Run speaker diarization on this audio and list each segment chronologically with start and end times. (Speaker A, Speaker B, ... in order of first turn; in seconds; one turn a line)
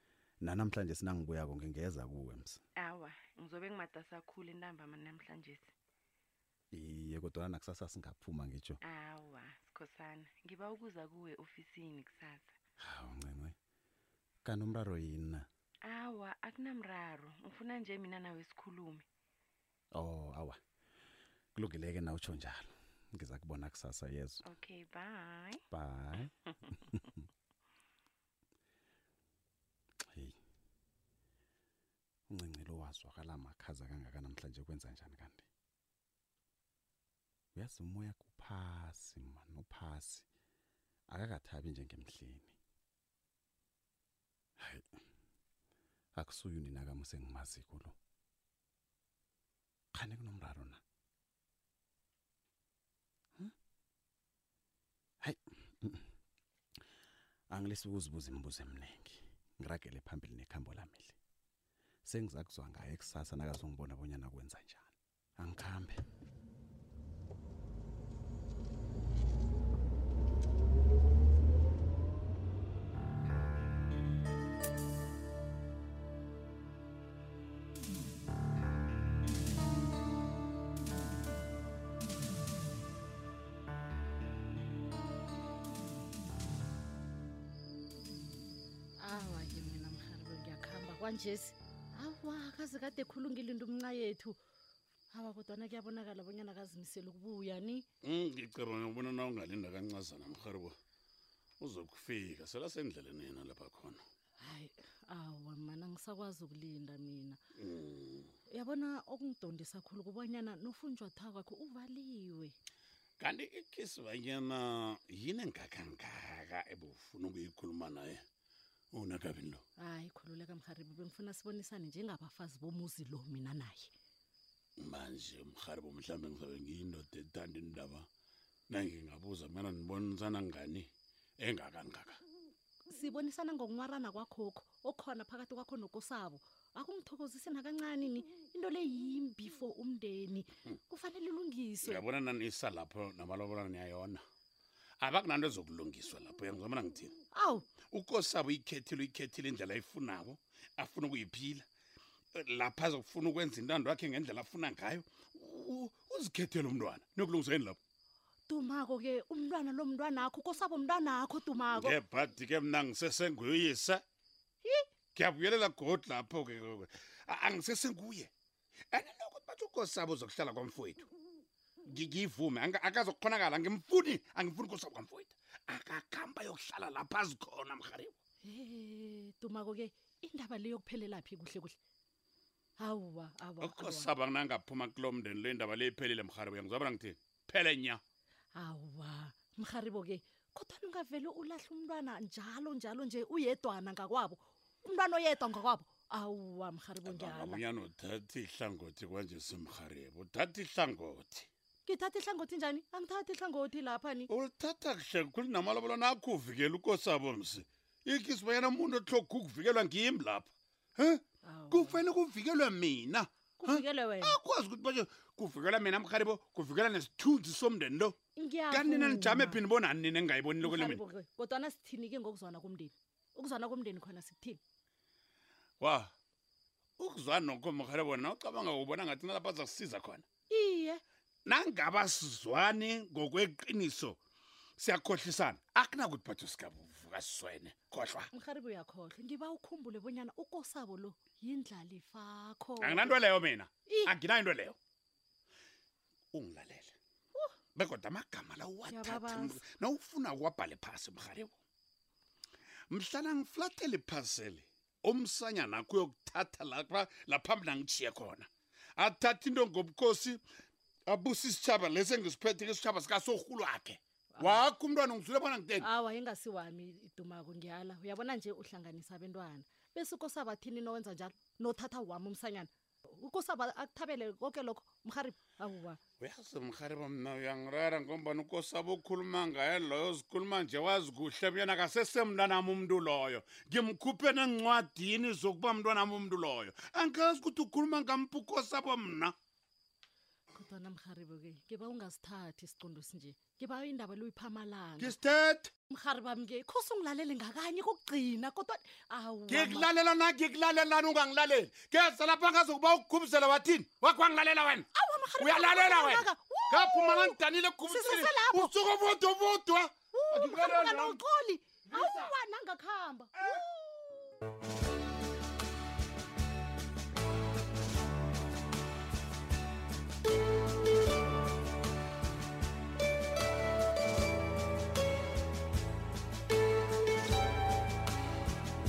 Speaker A: 0.4-2.6
Speaker B: 2.8-5.7
Speaker A: 6.7-8.8
Speaker B: 8.8-12.5
Speaker A: 12.8-13.5
Speaker A: 14.4-15.4
Speaker B: 15.9-19.0
Speaker A: 19.9-20.6
Speaker A: 21.5-24.4
Speaker B: 24.4-25.6
Speaker A: 25.7-26.3
Speaker A: 32.3-35.5
Speaker A: 37.5-40.3
Speaker A: 41.1-42.5
Speaker A: 44.6-44.9
Speaker A: 46.1-47.9
Speaker A: 49.9-50.8
Speaker A: 55.2-56.1
Speaker A: 57.5-61.2
Speaker A: 62.0-66.0
Speaker C: 89.0-94.4
Speaker C: 95.1-97.8
Speaker D: 98.0-100.8
Speaker D: 101.6-104.0
Speaker C: 104.4-107.4
Speaker D: 107.5-108.3
Speaker C: 108.5-112.5
Speaker D: 113.2-118.2
Speaker D: 118.9-119.6
Speaker C: 119.8-123.9
Speaker D: 124.8-128.1
Speaker D: 128.7-130.9
Speaker D: 131.4-132.2
Speaker C: 132.9-142.0
Speaker D: 141.8-144.2
Speaker D: 145.0-147.1
Speaker C: 147.3-147.6
Speaker D: 147.9-151.7
Speaker D: 152.3-157.8
Speaker C: 158.5-161.9
Speaker D: 161.7-164.0
Speaker D: 165.1-168.3
Speaker D: 168.9-171.1
Speaker D: 171.9-178.1
Speaker C: 178.5-181.8
Speaker C: 182.8-184.1
Speaker D: 183.6-188.0
Speaker C: 188.6-197.6
Speaker D: 197.0-201.5
Speaker C: 201.8-204.3
Speaker D: 204.3-218.2
Speaker C: 211.4-212.0
Speaker C: 213.6-214.4
Speaker C: 218.4-219.6
Speaker D: 218.7-221.0
Speaker C: 220.6-224.6
Speaker D: 225.8-226.1
Speaker D: 227.0-230.2
Speaker C: 230.5-231.0
Speaker D: 231.4-234.2
Speaker D: 234.8-238.3
Speaker C: 238.3-243.2
Speaker D: 242.8-244.8
Speaker C: 243.9-244.1
Speaker D: 246.3-246.9
Speaker D: 247.7-251.5
Speaker C: 248.8-249.6
Speaker D: 252.9-260.4
Speaker D: 261.1-265.9
Speaker C: 264.3-264.6
Speaker C: 265.8-272.7
Speaker C: 273.2-276.0
Speaker D: 276.2-289.3
Speaker C: 290.5-295.1
Speaker D: 295.0-295.7
Speaker C: 295.9-299.9
Speaker D: 299.5-304.9
Speaker C: 304.9-308.7
Speaker D: 305.4-311.2
Speaker C: 310.1-314.3
Speaker D: 311.9-312.3